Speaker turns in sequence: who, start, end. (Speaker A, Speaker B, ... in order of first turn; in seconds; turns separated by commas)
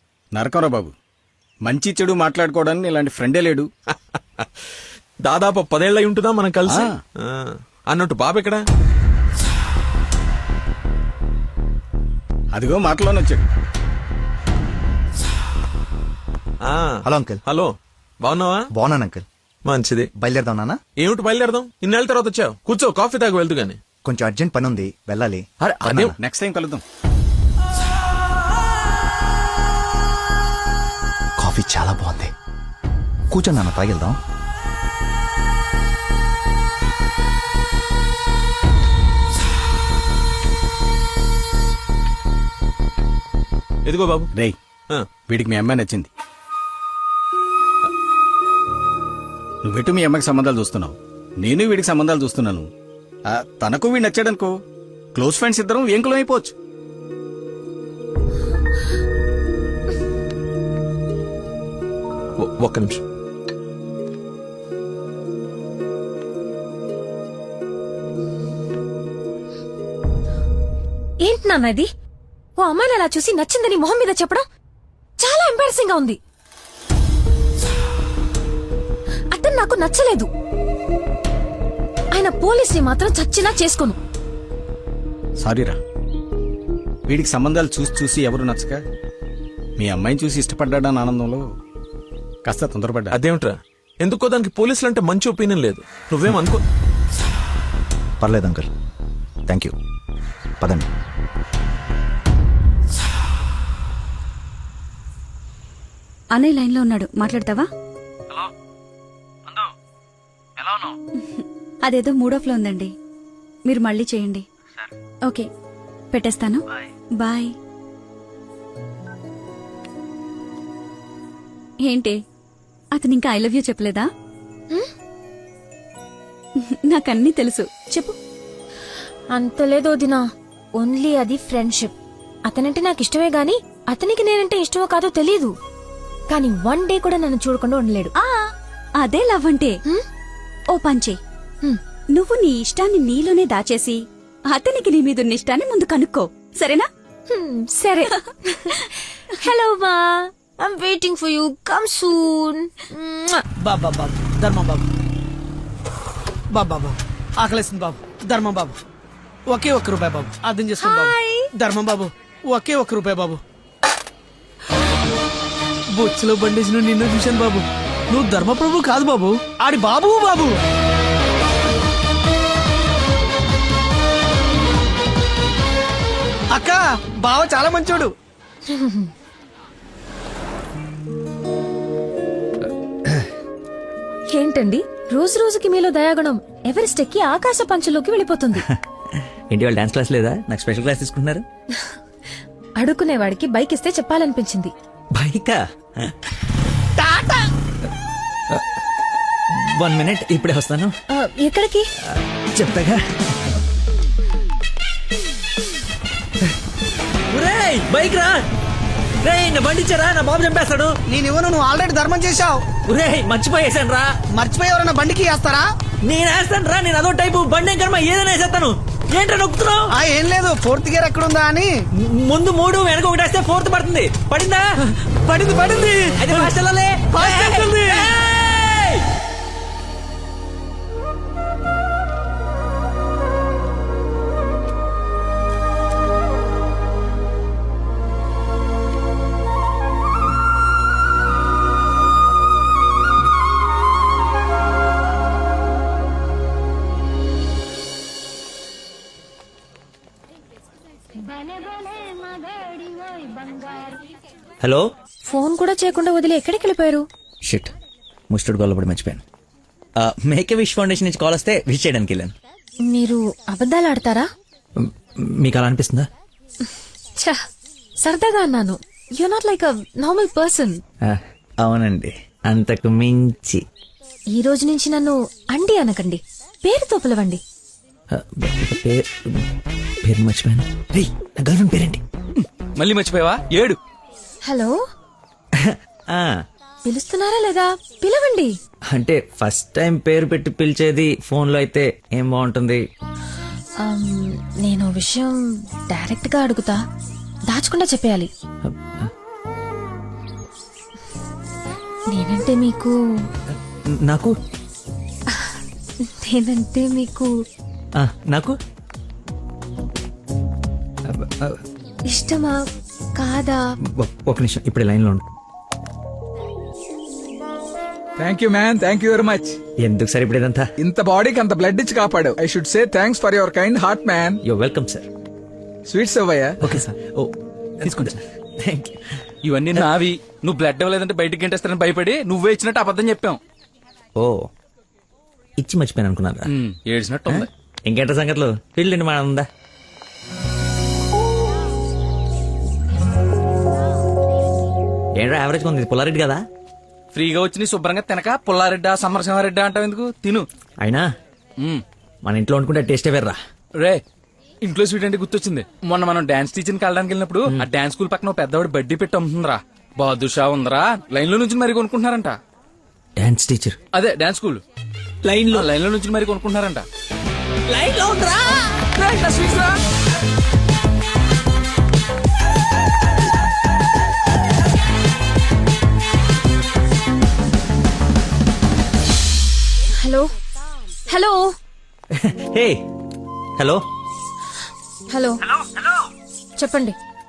Speaker A: 0.3-0.9, Speaker A: 1.6-3.7, Speaker B: 4.1-4.5, Speaker B: 5.2-8.6, Speaker A: 6.6-7.0, Speaker A: 12.5-13.4, Speaker B: 16.6-18.7, Speaker C: 17.1-17.4, Speaker C: 18.7-19.2, Speaker B: 19.6-20.1, Speaker C: 20.2-20.8, Speaker B: 21.0-23.8, Speaker C: 24.1-25.4, Speaker B: 25.6-26.1, Speaker A: 26.1-26.8, Speaker C: 31.4-32.3, Speaker C: 33.3-34.2, Speaker B: 43.9-44.3, Speaker A: 45.2-46.1, Speaker A: 49.6-52.7, Speaker A: 53.3-54.5, Speaker A: 55.1-56.5, Speaker B: 62.4-63.0, Speaker D: 71.2-71.9, Speaker D: 72.6-74.4, Speaker D: 75.2-76.2, Speaker D: 79.3-80.3, Speaker D: 82.1-84.0, Speaker A: 85.4-85.8, Speaker A: 87.1-88.8, Speaker A: 89.8-91.4, Speaker A: 92.5-93.2, Speaker B: 93.1-96.6, Speaker C: 98.2-98.7, Speaker C: 99.5-99.7, Speaker C: 100.6-100.8, Speaker E: 106.3-107.7, Speaker E: 111.4-112.9, Speaker E: 113.7-114.5, Speaker E: 116.1-116.6, Speaker E: 117.2-117.5, Speaker E: 121.8-122.2, Speaker E: 122.9-124.1, Speaker E: 126.9-128.1, Speaker D: 129.3-130.2, Speaker D: 130.8-131.9, Speaker D: 132.5-135.5, Speaker D: 136.3-138.1, Speaker E: 138.2-138.4, Speaker E: 139.0-139.8, Speaker E: 140.7-141.2, Speaker E: 142.1-146.9, Speaker D: 147.3-153.4, Speaker F: 153.6-154.8, Speaker F: 156.5-158.8, Speaker F: 159.5-163.4, Speaker D: 160.8-161.4, Speaker F: 165.9-170.5, Speaker F: 176.5-178.1, Speaker D: 178.7-179.1, Speaker D: 184.3-188.7, Speaker G: 188.7-191.4, Speaker D: 192.8-194.7, Speaker G: 195.2-196.1, Speaker G: 199.5-200.9, Speaker D: 201.1-201.9, Speaker G: 202.0-203.5, Speaker G: 207.3-208.4, Speaker G: 209.2-210.9, Speaker F: 211.1-212.7, Speaker G: 212.8-214.1, Speaker F: 214.3-215.7, Speaker G: 216.0-219.9, Speaker F: 219.9-221.7, Speaker G: 222.0-224.8, Speaker F: 225.0-226.5, Speaker G: 226.2-229.0, Speaker F: 227.1-228.1, Speaker D: 255.2-257.0, Speaker G: 257.4-257.7, Speaker G: 258.3-259.2, Speaker G: 260.0-262.3, Speaker D: 262.9-264.3, Speaker G: 264.8-266.1, Speaker D: 268.0-270.8, Speaker G: 271.1-273.6, Speaker D: 274.3-277.4, Speaker G: 278.1-279.4, Speaker G: 280.0-282.0, Speaker H: 282.4-283.8, Speaker D: 284.4-284.8, Speaker G: 285.6-286.3, Speaker D: 286.8-288.5, Speaker G: 288.9-292.8, Speaker D: 293.8-295.4, Speaker D: 295.9-296.8, Speaker D: 297.5-298.3, Speaker G: 298.6-299.1, Speaker D: 302.1-302.9, Speaker G: 304.0-304.3, Speaker D: 306.2-307.3, Speaker G: 308.0-308.6, Speaker G: 311.1-311.6, Speaker D: 312.1-312.6, Speaker D: 313.1-313.6, Speaker G: 313.9-315.2, Speaker I: 318.2-319.6, Speaker G: 319.8-320.6, Speaker I: 320.8-324.4, Speaker G: 324.4-325.1, Speaker I: 325.9-326.5, Speaker G: 326.6-327.3, Speaker H: 327.8-328.1, Speaker G: 327.9-329.0, Speaker H: 329.4-333.4, Speaker G: 334.2-334.4, Speaker G: 335.6-336.5, Speaker H: 336.5-337.5, Speaker G: 337.3-339.4, Speaker G: 345.2-346.4, Speaker H: 347.1-350.5, Speaker G: 350.8-351.1, Speaker G: 352.2-353.4, Speaker H: 353.7-354.0, Speaker H: 354.6-362.4, Speaker G: 363.2-363.8, Speaker H: 363.9-364.6, Speaker G: 365.2-365.7, Speaker H: 365.5-366.9, Speaker G: 367.7-368.7, Speaker H: 368.9-369.8, Speaker D: 380.0-380.3, Speaker D: 381.1-381.5, Speaker G: 382.2-382.8, Speaker D: 385.1-385.4, Speaker D: 386.6-387.0